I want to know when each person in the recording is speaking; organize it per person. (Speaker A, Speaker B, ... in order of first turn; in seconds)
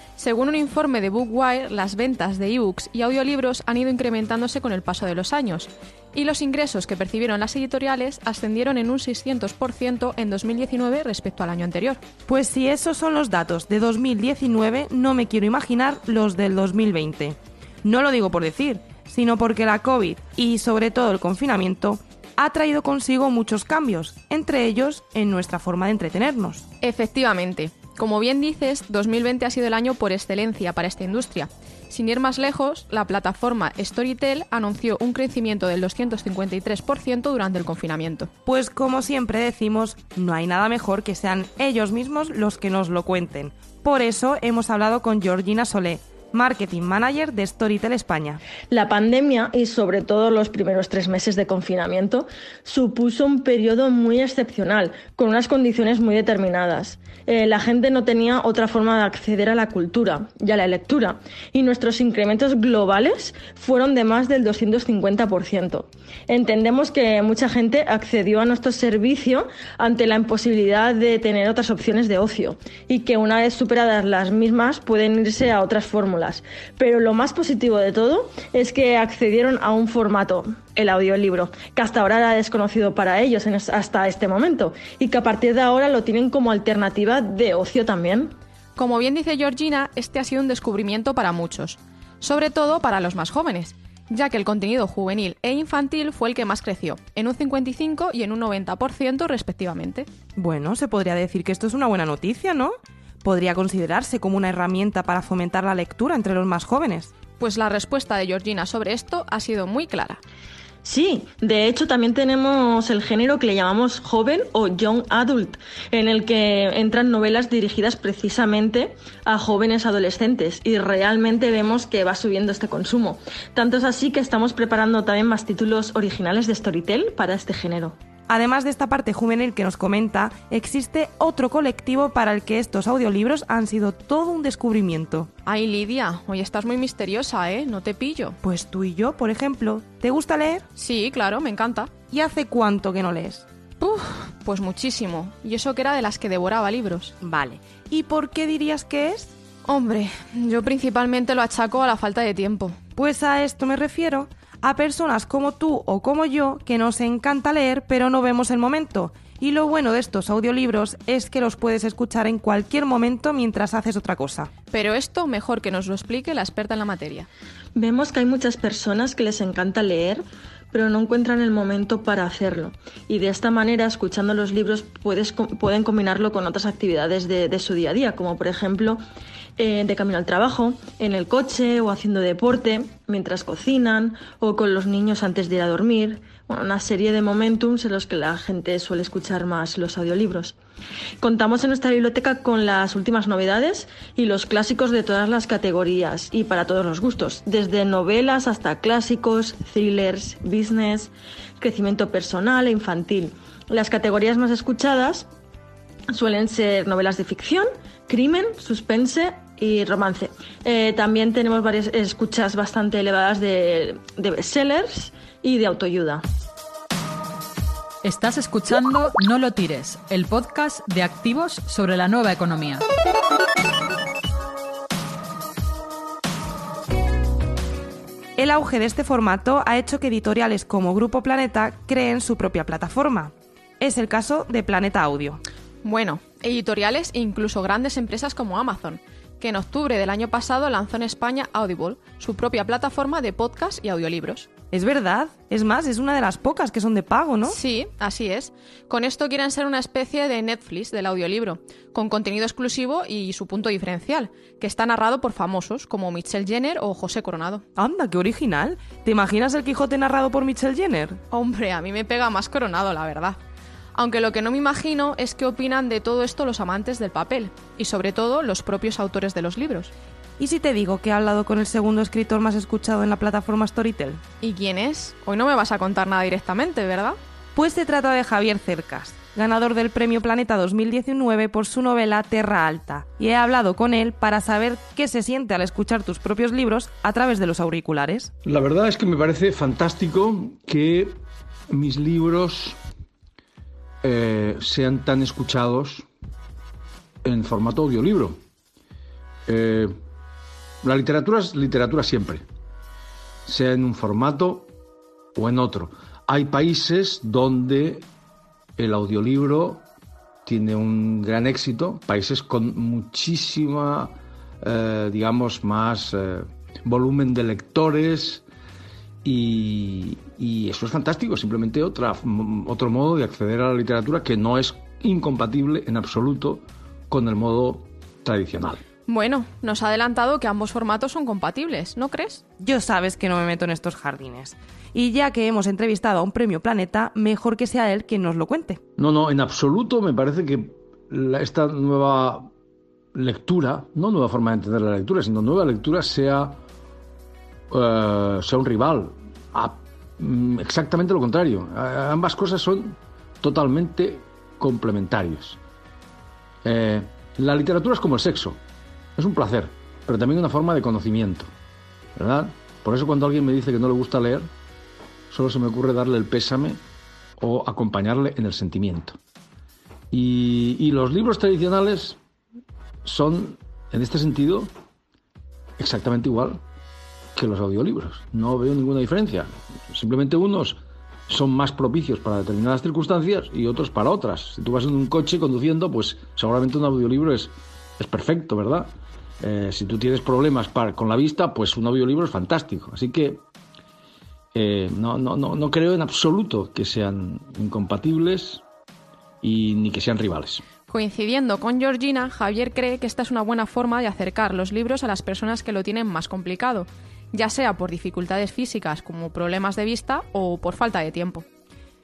Speaker A: 0.2-12.0, 26.8-38.3, 88.8-100.1, 107.4-110.2, 135.4-138.4, 140.8-141.9, 143.8-147.2, 149.7-152.8, 164.7-167.3, 235.8-244.5, 247.4-257.6, 261.3-263.4, 263.9-269.9, 274.4-277.2, 329.1-332.4, 400.9-411.5
Speaker B: 12.3-26.6, 38.5-48.4, 100.4-107.1, 128.3-135.3, 138.4-140.7, 142.1-143.5, 147.2-149.3, 153.0-164.5, 228.4-235.4, 244.7-247.6, 257.8-261.2, 270.4-274.2, 277.6-288.3, 332.6-338.8
Speaker C: 48.7-88.3, 110.8-128.0, 167.8-179.0, 179.6-190.6, 191.2-205.3, 206.1-216.2
Speaker D: 218.0-222.8
Speaker E: 288.4-292.8, 294.0-296.1, 297.2-298.4, 299.5-299.9, 300.8-302.5, 303.5-304.7, 305.4-308.1, 308.8-309.9, 310.5-318.4, 319.2-328.8, 339.0-342.5, 343.1-346.6, 347.7-355.6, 356.6-358.6, 359.2-361.5, 362.2-364.5, 365.3-366.8, 367.4-369.2, 370.1-372.2, 373.0-374.7, 375.8-376.6, 377.4-393.4, 394.5-398.6, 399.4-400.6